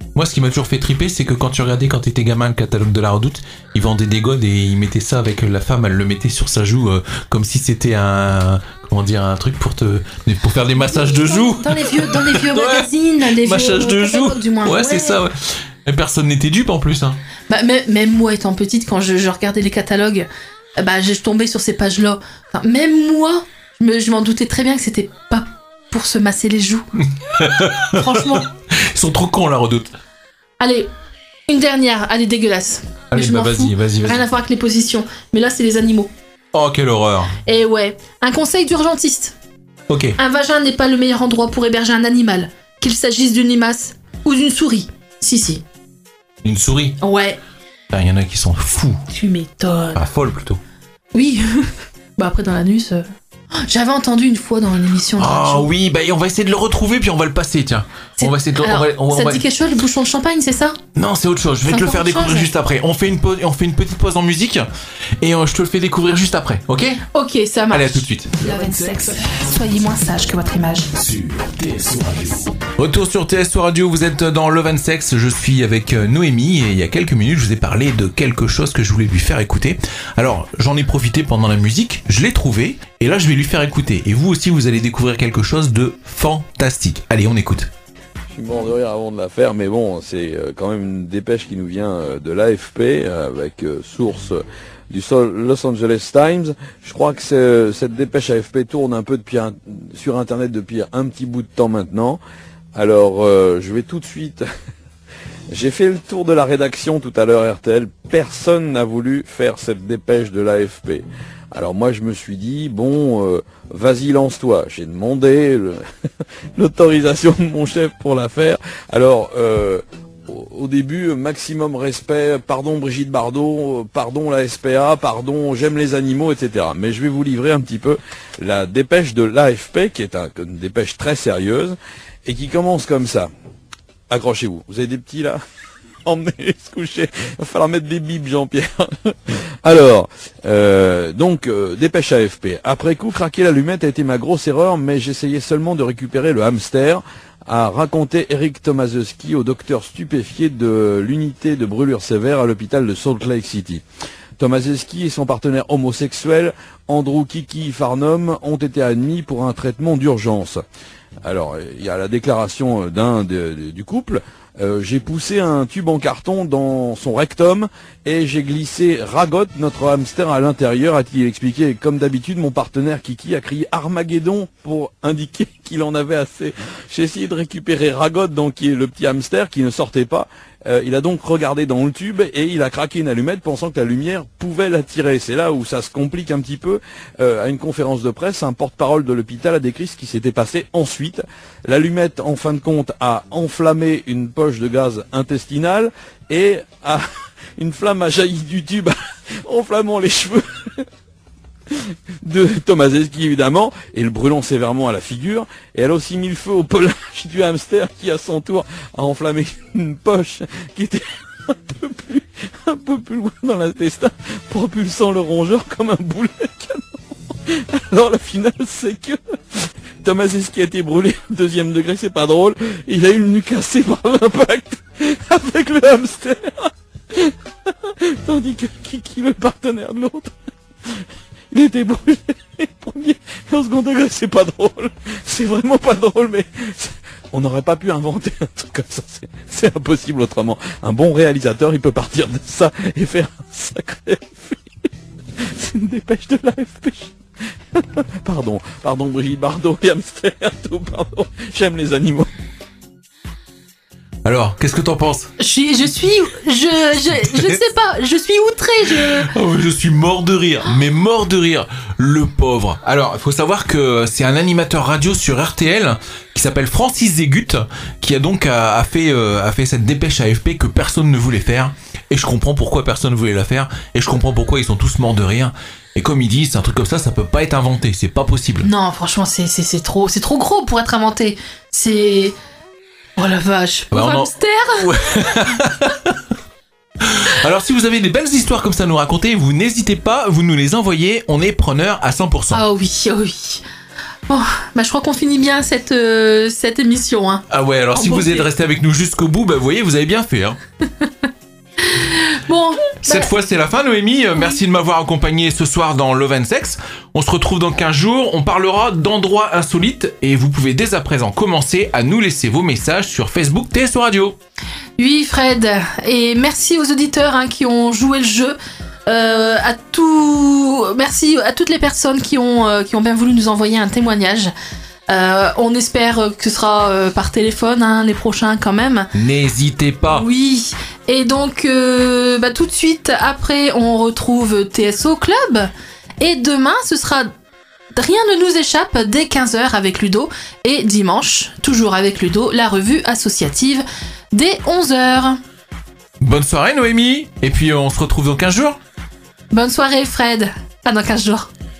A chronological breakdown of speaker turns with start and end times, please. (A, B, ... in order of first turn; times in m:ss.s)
0:00.1-0:17.2 A
0:10.8-0:15.2 B
0:17.5-0:26.9 B
0:27.1-0:29.9 A
0:27.7-0:28.5 B
0:30.6-0:30.9 B
0:31.5-0:36.1 B
0:33.1-0:34.2 A
0:36.5-0:37.4 A
0:37.4-0:39.4 B
0:39.9-0:40.2 A
0:40.2-0:45.6 B
0:46.4-0:47.0 A
0:47.0-0:47.4 B
0:47.9-0:49.0 A
0:49.1-0:50.0 B
0:50.0-0:50.6 A
0:51.1-0:55.7 B
0:55.2-0:59.4 A
0:58.2-1:00.8 B
1:00.9-1:04.7 A
1:01.7-1:02.5 B
1:05.2-1:07.0 A
1:07.1-1:10.9 B
1:07.7-1:08.3 A
1:08.4-1:09.4 C
1:10.9-1:12.5 C
1:12.8-1:27.7 A
1:28.3-1:42.2 D
1:42.7-1:44.4 D
1:45.5-1:55.8 D
1:56.6-2:13.3 D
2:14.1-2:15.4 D
2:16.0-2:33.8 D
2:34.4-2:40.6 D
2:41.2-3:17.0 D
3:17.6-3:20.8 D
3:21.7-3:39.2 D
3:40.0-4:04.6 D
4:05.4-4:07.2 D
4:07.7-4:12.3 D
4:14.2-4:15.3 A
4:15.4-4:19.3 B
4:18.9-4:38.7 A
4:38.6-4:42.4 B
4:43.2-4:45.5 B
4:43.9-4:46.2 A
4:47.0-4:52.6 A
4:52.5-4:53.6 B
4:54.3-4:58.5 B
4:57.5-5:00.6 A
5:01.8-5:03.3 B
5:03.0-5:14.4 A
5:15.0-5:24.5 B
5:25.1-5:29.1 B
5:29.1-5:30.2 A
5:30.1-5:37.3 B
5:37.9-5:45.4 B
5:46.2-5:48.8 A
5:49.5-5:51.5 B